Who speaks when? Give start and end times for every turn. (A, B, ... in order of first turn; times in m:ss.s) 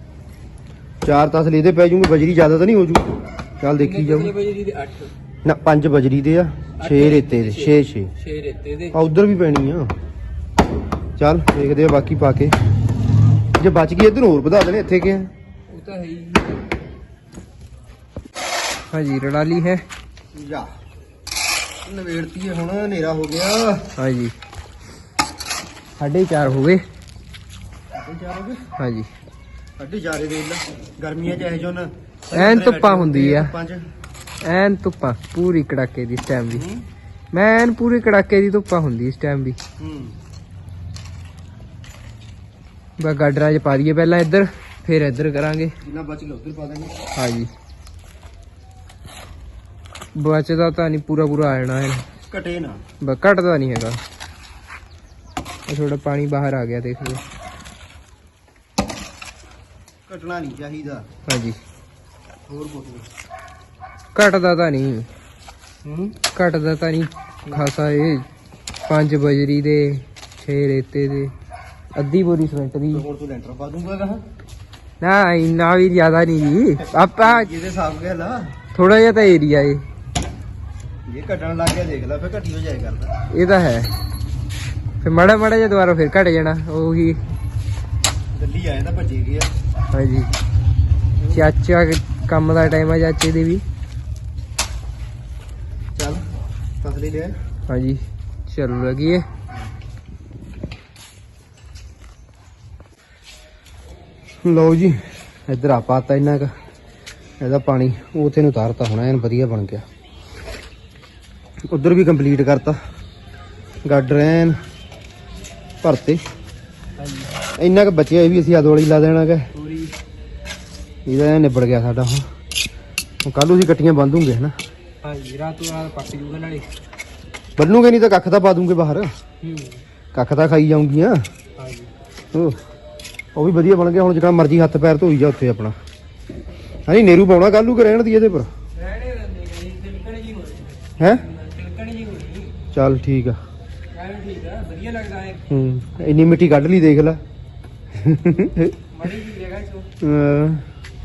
0:01.0-0:03.1 A
0:03.6-0:04.3 A
0:03.8-0:05.1 B
0:05.4-0:08.1 A
0:06.8-0:09.0 B
0:08.9-0:09.9 A
0:11.2-0:12.6 A
0:13.6-0:15.3 A
0:15.7-0:16.6 B
0:18.9-0:19.9 B
0:20.3-0:20.7 A
0:21.8-0:23.9 A
0:24.0-0:24.3 B
0:26.0-0:26.8 B
0:27.9-0:28.6 A
0:28.8-0:29.1 B
0:29.8-0:33.9 A
0:32.3-0:33.5 B
0:34.4-0:36.6 B
0:36.4-0:36.8 A
0:37.3-0:39.6 B
0:39.8-0:40.2 A
0:43.0-0:45.7 B
0:45.8-0:47.0 A
0:47.2-0:47.5 B
0:50.2-0:52.1 B
0:52.2-0:52.8 A
0:53.0-0:54.0 B
0:55.7-0:57.2 B
1:00.1-1:01.1 A
1:01.3-1:01.6 B
1:02.5-1:03.1 A
1:04.2-1:05.1 B
1:05.9-1:08.3 B
1:08.9-1:11.3 B
1:12.0-1:13.0 B
1:12.9-1:14.2 A
1:15.0-1:17.5 B
1:16.8-1:18.5 A
1:18.7-1:19.9 B
1:21.1-1:23.1 A
1:23.3-1:23.9 B
1:25.0-1:27.2 B
1:28.3-1:29.5 A
1:29.9-1:30.3 B
1:31.3-1:33.6 B
1:36.0-1:36.2 A
1:36.8-1:37.4 A
1:37.7-1:39.3 B
1:44.4-1:46.5 A
1:47.4-1:49.8 A
1:51.7-1:52.8 A
1:53.8-1:54.6 A
1:55.8-1:56.2 A
1:57.0-1:57.3 B
1:57.6-1:59.5 A
1:59.5-1:59.9 B
2:01.1-2:02.3 A
2:03.2-2:04.5 A
2:05.0-2:06.7 B
2:07.6-2:09.1 A
2:09.4-2:09.8 B
2:10.1-2:11.2 A
2:11.6-2:11.9 B
2:13.4-2:15.8 A
2:16.9-2:18.5 A
2:18.7-2:22.5 B
2:21.0-2:21.2 A
2:22.7-2:23.4 A
2:23.9-2:25.4 B
2:25.5-2:27.2 A
2:28.0-2:28.7 A
2:28.9-2:29.9 B
2:30.0-2:30.6 A